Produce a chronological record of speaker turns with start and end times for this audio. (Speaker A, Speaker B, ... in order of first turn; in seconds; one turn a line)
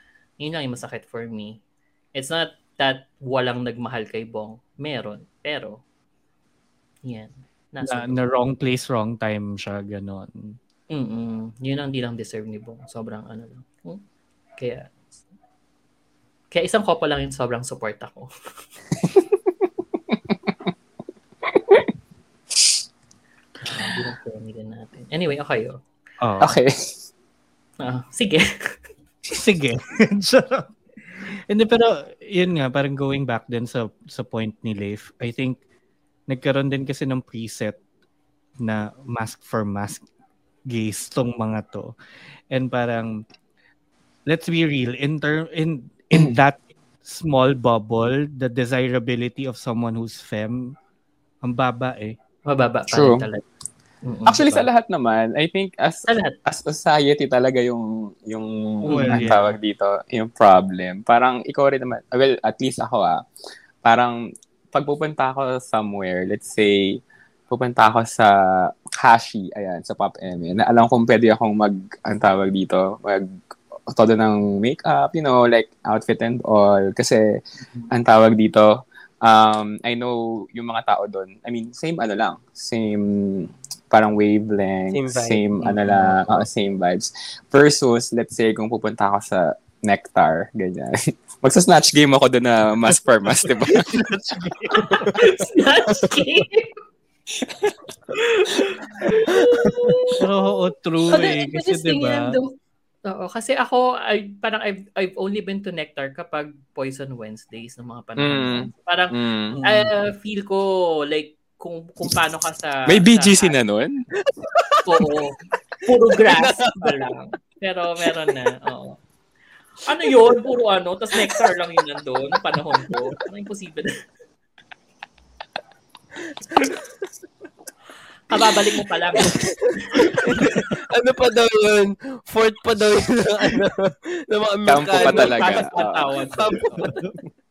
Speaker A: 0.4-1.6
Speaker A: 2.1-5.8
Speaker A: 7.0-8.2
Speaker B: 7.8-10.6
Speaker A: 10.9-14.0
Speaker A: 14.6-14.9
Speaker A: 16.5-18.3
Speaker A: 23.6-25.8
Speaker B: 26.2-26.6
Speaker C: 26.4-26.7
Speaker A: 27.8-28.7
Speaker B: 29.3-30.7
Speaker B: 31.5-35.6
Speaker B: 36.3-37.8
Speaker B: 38.6-40.0
Speaker B: 40.7-41.9
Speaker B: 42.5-43.2
Speaker B: 44.3-50.7
Speaker B: 51.4-52.1
Speaker A: 52.5-53.4
Speaker C: 52.9-53.2
Speaker A: 54.0-54.7
Speaker C: 54.3-63.2
Speaker A: 56.1-56.3
Speaker A: 58.8-59.5
Speaker B: 58.9-59.5
Speaker C: 63.8-64.2
Speaker C: 64.7-67.0
Speaker C: 67.5-73.3
Speaker C: 73.9-77.4
Speaker C: 77.9-94.0
Speaker D: 84.9-86.4
Speaker B: 93.6-95.2
Speaker D: 94.8-95.4
Speaker A: 94.8-96.7
Speaker C: 97.5-97.8
Speaker A: 98.1-100.2
Speaker D: 99.1-100.0
Speaker B: 100.2-102.3
Speaker A: 101.1-102.5
Speaker A: 103.0-113.6
Speaker C: 108.2-109.6
Speaker B: 109.5-109.9
Speaker C: 112.9-114.0
Speaker D: 114.2-115.0
Speaker A: 114.8-119.0
Speaker D: 116.1-117.0
Speaker A: 119.8-123.9
Speaker D: 121.1-121.5
Speaker D: 126.4-126.8
Speaker A: 128.3-130.5
Speaker D: 129.2-135.7
Speaker C: 134.7-136.1
Speaker A: 134.9-137.0
Speaker D: 136.3-137.0
Speaker B: 136.8-137.2